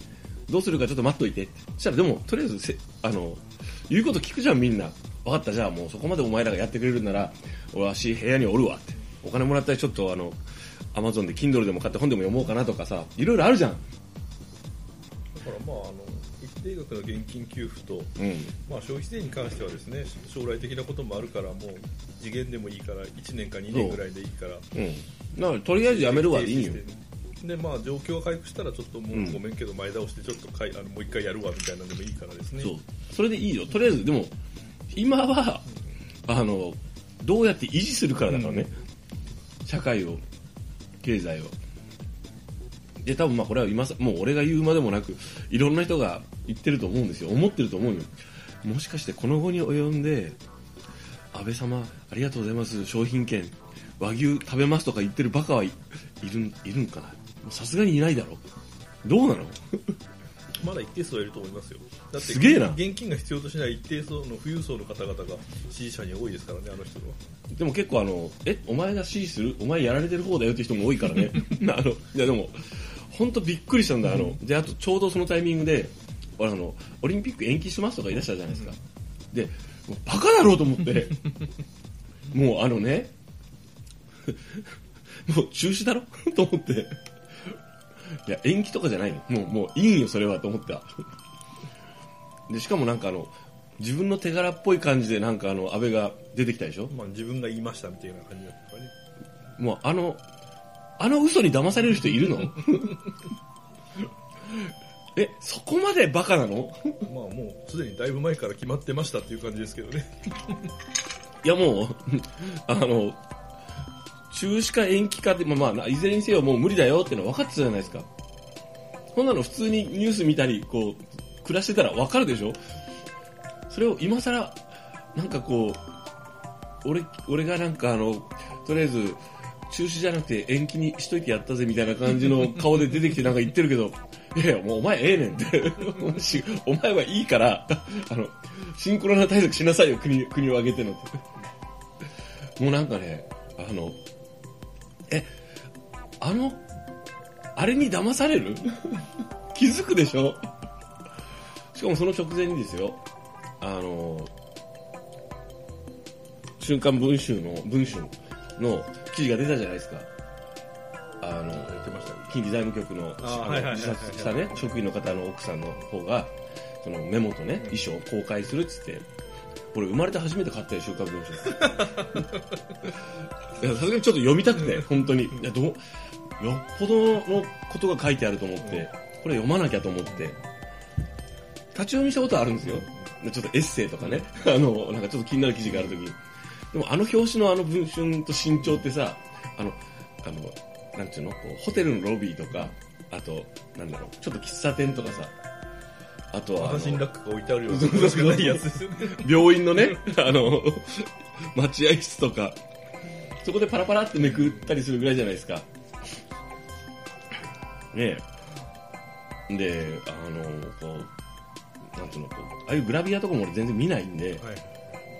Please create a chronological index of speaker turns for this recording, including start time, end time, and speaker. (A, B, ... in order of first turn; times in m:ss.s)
0:00.5-0:10.4 A
0:10.9-0:13.8 A
0:15.4-0:24.7 B
0:18.2-0:18.5 A
0:23.7-0:24.0 A
0:24.7-0:26.8 A
0:25.8-0:32.7 B
0:29.1-0:29.4 A
0:32.6-0:34.3 A
0:34.9-0:35.7 A
0:36.3-0:38.8 A
0:38.3-0:38.7 B
0:39.6-0:40.2 A
0:41.0-0:41.5 A
0:43.0-0:50.4 A
0:51.3-0:58.4 A
0:59.0-0:59.9 A
1:00.6-1:07.2 B
1:02.2-1:02.8 A
1:07.5-1:18.8 A
1:19.3-1:21.3 A
1:22.3-1:23.1 A
1:24.3-1:24.6 A
1:25.3-1:27.0 A
1:28.3-1:31.0 A
1:32.5-1:36.9 A
1:36.9-1:38.9 B
1:39.6-1:40.2 A
1:41.0-1:43.0 A
1:45.2-1:47.1 A
1:47.1-1:50.7 B
1:51.4-1:53.2 A
1:54.3-1:58.1 A
1:59.1-2:02.6 A
2:03.7-2:04.6 A
2:05.1-2:05.8 A
2:06.8-2:21.2 A
2:22.6-2:24.0 A
2:26.2-2:26.6 A
2:27.5-2:30.4 A
2:31.7-2:33.0 A
2:33.6-2:34.3 A
2:36.6-2:40.1 A
2:41.2-2:49.1 A
2:41.5-2:42.3 B
2:43.2-2:44.8 B
2:49.7-2:52.2 A
2:51.6-2:52.2 B
2:53.6-2:55.8 A
2:56.4-3:00.4 A
3:01.7-3:06.2 A
3:06.7-3:15.3 A
3:16.3-3:17.1 A
3:16.5-3:20.1 B
3:17.7-3:22.6 A
3:23.4-3:25.7 A
3:27.9-3:28.3 A
3:29.5-3:31.1 A
3:31.9-3:34.4 A
3:34.4-3:34.8 B